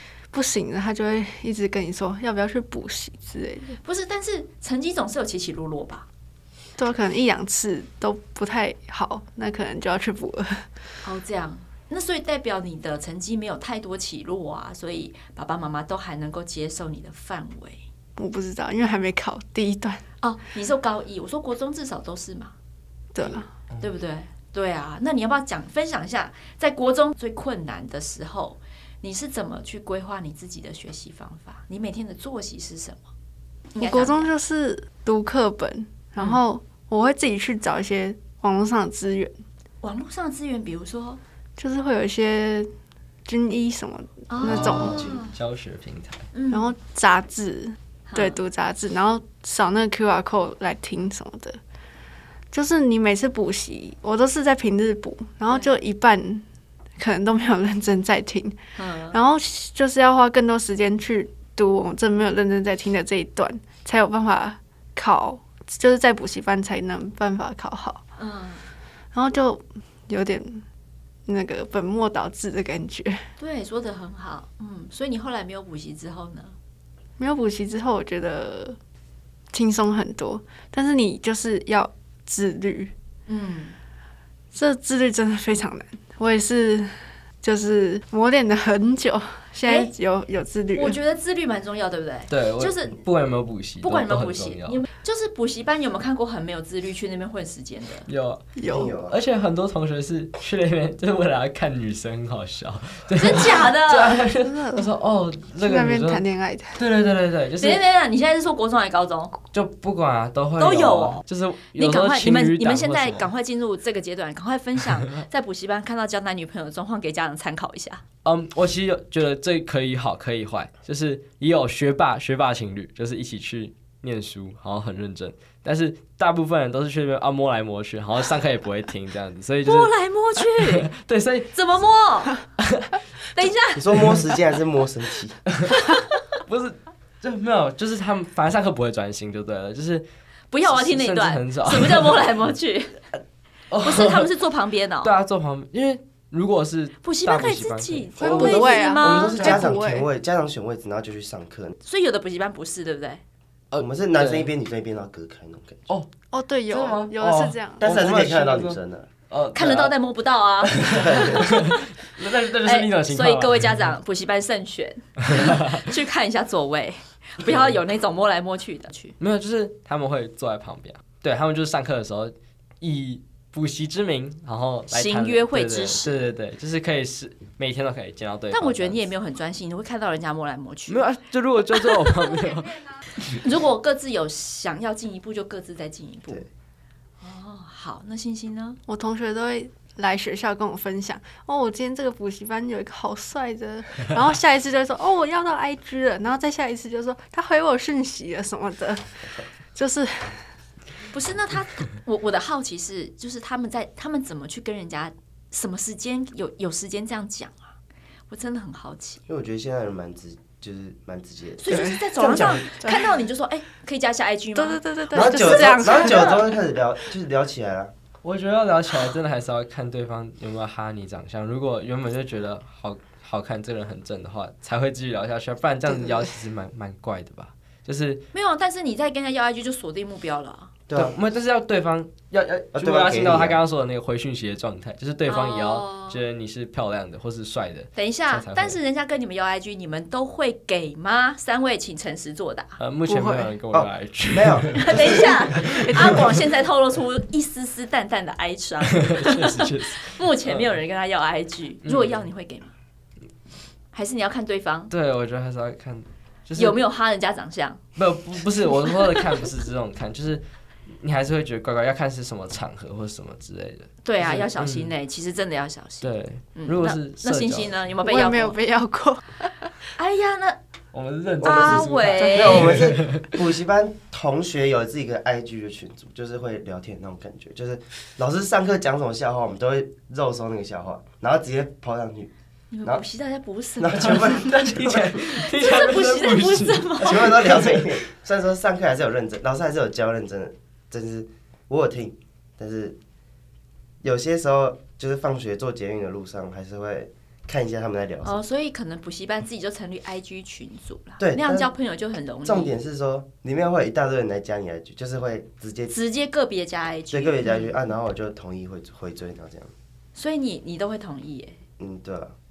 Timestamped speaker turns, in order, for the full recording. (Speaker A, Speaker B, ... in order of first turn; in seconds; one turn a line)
Speaker A: 0.3-3.8
Speaker B: 3.8-6.1
Speaker A: 6.8-10.7
Speaker B: 11.0-17.8
Speaker A: 18.2-20.0
Speaker B: 20.2-22.5
Speaker A: 23.1-23.5
Speaker B: 23.2-33.0
Speaker B: 33.7-34.3
Speaker A: 33.8-39.4
Speaker B: 39.8-41.2
Speaker A: 41.6-42.7
Speaker A: 43.2-45.0
Speaker B: 44.3-45.3
Speaker C: 44.4-46.3
Speaker B: 46.3-46.7
Speaker A: 46.5-51.6
Speaker B: 48.1-48.4
Speaker A: 52.5-56.4
Speaker A: 57.0-58.6
Speaker B: 58.8-59.2
Speaker A: 59.1-68.0
Speaker B: 68.2-68.7
Speaker A: 69.1-70.6
Speaker A: 71.2-73.3
Speaker B: 73.4-76.5
Speaker A: 77.2-78.8
Speaker A: 79.5-82.9
Speaker B: 83.3-83.8
Speaker A: 84.5-91.0
Speaker B: 89.6-89.9
Speaker B: 90.7-93.0
Speaker C: 92.3-94.8
Speaker B: 93.8-98.1
Speaker C: 98.1-98.5
Speaker A: 98.6-98.9
Speaker D: 98.7-99.2
Speaker C: 99.1-106.2
Speaker B: 103.1-104.2
Speaker A: 104.4-104.9
Speaker A: 105.6-106.8
Speaker C: 106.7-107.8
Speaker B: 107.6-109.4
Speaker C: 109.5-113.3
Speaker B: 110.6-111.2
Speaker B: 111.8-118.0
Speaker C: 118.2-131.5
Speaker B: 129.6-130.9
Speaker B: 131.5-132.4
Speaker C: 132.6-133.0
Speaker B: 133.3-134.0
Speaker D: 133.8-135.4
Speaker C: 135.5-135.8
Speaker B: 135.7-136.4
Speaker C: 136.4-140.1
Speaker B: 140.5-143.1
Speaker C: 140.6-142.4
Speaker C: 143.7-144.3
Speaker B: 143.8-145.1
Speaker C: 145.0-148.5
Speaker B: 147.0-149.6
Speaker A: 148.2-150.1
Speaker D: 148.2-151.7
Speaker B: 151.8-153.2
Speaker C: 153.7-154.5
Speaker D: 153.8-155.9
Speaker A: 156.3-157.9
Speaker C: 156.7-158.8
Speaker D: 157.8-159.1
Speaker C: 159.3-159.9
Speaker B: 159.5-161.9
Speaker C: 160.6-163.8
Speaker D: 161.0-161.4
Speaker B: 162.6-169.2
Speaker C: 165.2-165.7
Speaker C: 167.4-167.8
Speaker C: 169.2-179.1
Speaker B: 174.9-176.2
Speaker B: 178.5-181.1
Speaker C: 180.9-182.9
Speaker B: 181.8-182.3
Speaker B: 183.2-186.5
Speaker B: 187.2-188.8
Speaker A: 188.9-199.1
Speaker A: 199.7-200.5
Speaker B: 201.1-207.7
Speaker B: 208.3-209.2
Speaker D: 209.3-212.7
Speaker B: 211.6-216.4
Speaker A: 211.7-212.1
Speaker A: 212.7-213.1
Speaker A: 214.5-216.4
Speaker D: 215.1-217.9
Speaker C: 218.2-228.2
Speaker B: 228.3-230.7
Speaker D: 230.9-231.2
Speaker C: 230.9-238.8
Speaker D: 232.7-233.6
Speaker B: 235.2-236.2
Speaker B: 237.9-242.8
Speaker C: 242.8-246.2
Speaker A: 243.1-243.5
Speaker D: 243.7-246.1
Speaker B: 244.7-252.7
Speaker C: 248.9-250.7
Speaker C: 251.8-252.3
Speaker B: 253.9-254.9
Speaker C: 254.9-256.8
Speaker B: 256.6-257.8
Speaker C: 257.9-264.9
Speaker B: 264.0-268.6
Speaker C: 266.0-267.7
Speaker A: 268.0-269.7
Speaker B: 269.9-270.6
Speaker C: 270.9-273.4
Speaker B: 271.4-272.8
Speaker D: 271.4-282.3
Speaker B: 282.7-284.5
Speaker D: 283.8-285.2
Speaker C: 283.9-287.9
Speaker B: 285.2-287.4
Speaker D: 287.0-293.0
Speaker D: 294.0-298.4
Speaker B: 298.2-302.7
Speaker D: 301.2-301.7
Speaker D: 302.4-305.9
Speaker B: 305.9-307.7
Speaker D: 307.1-309.7
Speaker B: 310.1-311.6
Speaker D: 311.8-312.4